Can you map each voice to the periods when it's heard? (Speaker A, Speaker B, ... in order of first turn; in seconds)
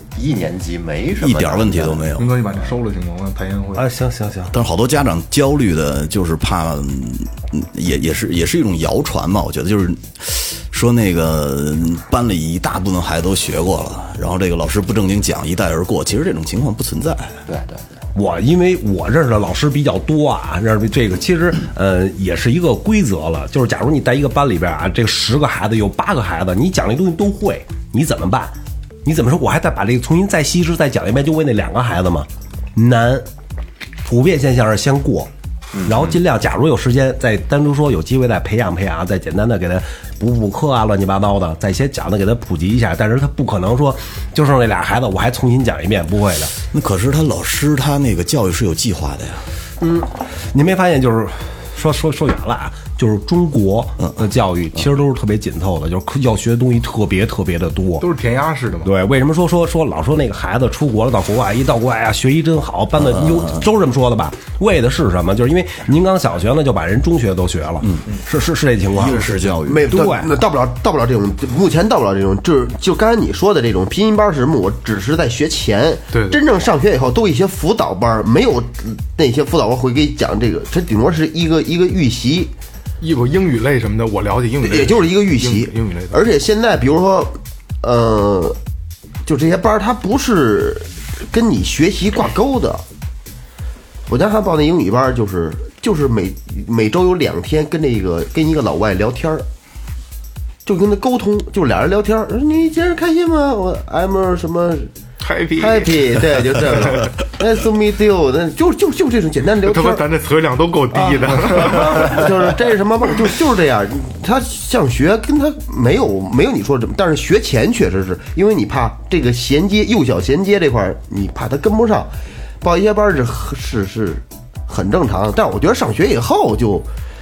Speaker A: 0.1-2.1, 17.5-17.8, 35.7-36.2
Speaker B: 1.2-2.3, 4.5-17.4, 46.7-49.4, 63.1-63.6, 68.9-69.9
Speaker C: 2.1-3.9, 58.0-58.9, 69.0-69.4, 76.1-76.4, 83.0-86.3, 105.2-107.0, 109.6-112.4
Speaker D: 3.7-4.5, 18.1-33.3, 34.0-35.3, 35.8-46.5, 49.8-58.1, 58.8-69.2, 69.9-70.3
Speaker E: 69.6-82.5, 84.6-88.6, 89.2-92.8, 94.1-99.5, 100.6-104.9, 105.5-110.0, 110.9-126.9